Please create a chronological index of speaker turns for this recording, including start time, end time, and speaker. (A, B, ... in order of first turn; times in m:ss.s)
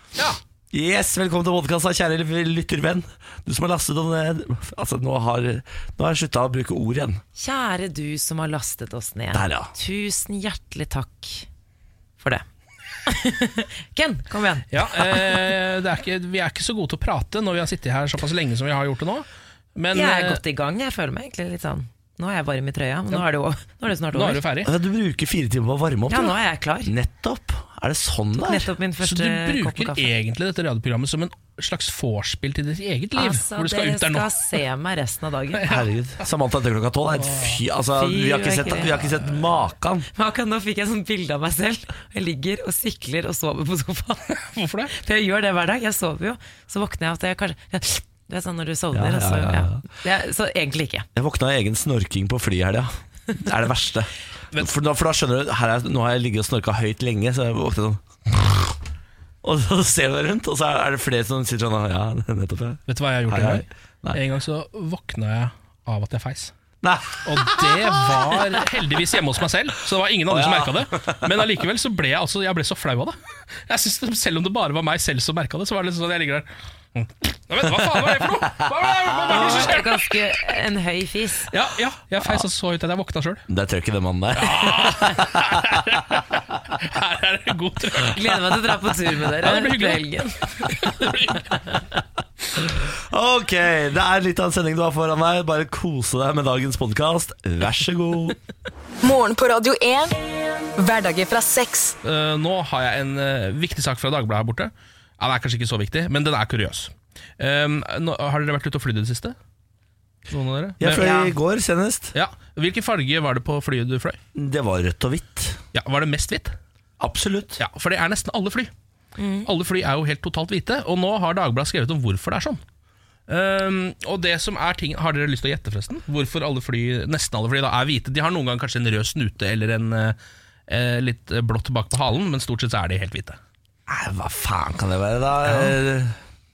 0:00.7-0:07.2 A
0:07.4-0:11.5 B
0:09.3-0:09.7 A
0:12.2-0:12.4 B
0:13.1-0:15.4 B
0:14.7-0:20.4 C
0:19.9-0:24.4 B
0:24.1-0:24.7 C
0:24.6-0:28.7 A
0:26.1-0:26.9 B
0:28.4-0:30.1 B
0:29.0-0:34.3 C
0:33.1-0:35.7 B
0:35.5-0:35.9 C
0:35.7-0:40.1 A
0:37.2-0:37.6 C
0:38.0-0:39.0 B
0:40.2-0:44.3 B
0:44.4-0:44.9 C
0:44.9-0:51.1 B
0:48.9-0:49.8 A
0:51.2-0:58.8 A
0:59.4-1:04.2 A
1:02.9-1:06.5 C
1:06.8-1:08.6 A
1:07.2-1:20.2 C
1:10.3-1:11.5 A
1:17.7-1:19.6 A
1:19.3-1:21.5 B
1:21.5-1:23.4 C
1:23.5-1:26.0 A
1:24.4-1:28.8 C
1:28.1-1:31.0 B
1:29.3-1:31.8 C
1:32.8-1:38.4 A
1:39.0-1:40.2 D
1:40.8-1:42.0 D
1:42.0-1:49.4 C
1:50.3-1:51.4 C
1:50.8-1:52.1 A
1:52.1-1:54.2 C
1:54.4-1:55.6 A
1:55.7-1:56.6 C
1:57.0-1:57.6 A
1:57.6-1:58.7 C
1:59.2-1:59.5 B
1:59.5-2:02.6 C
2:03.3-2:10.2 C
2:10.7-2:13.4 C
2:13.9-2:16.2 A
2:15.5-2:15.8 C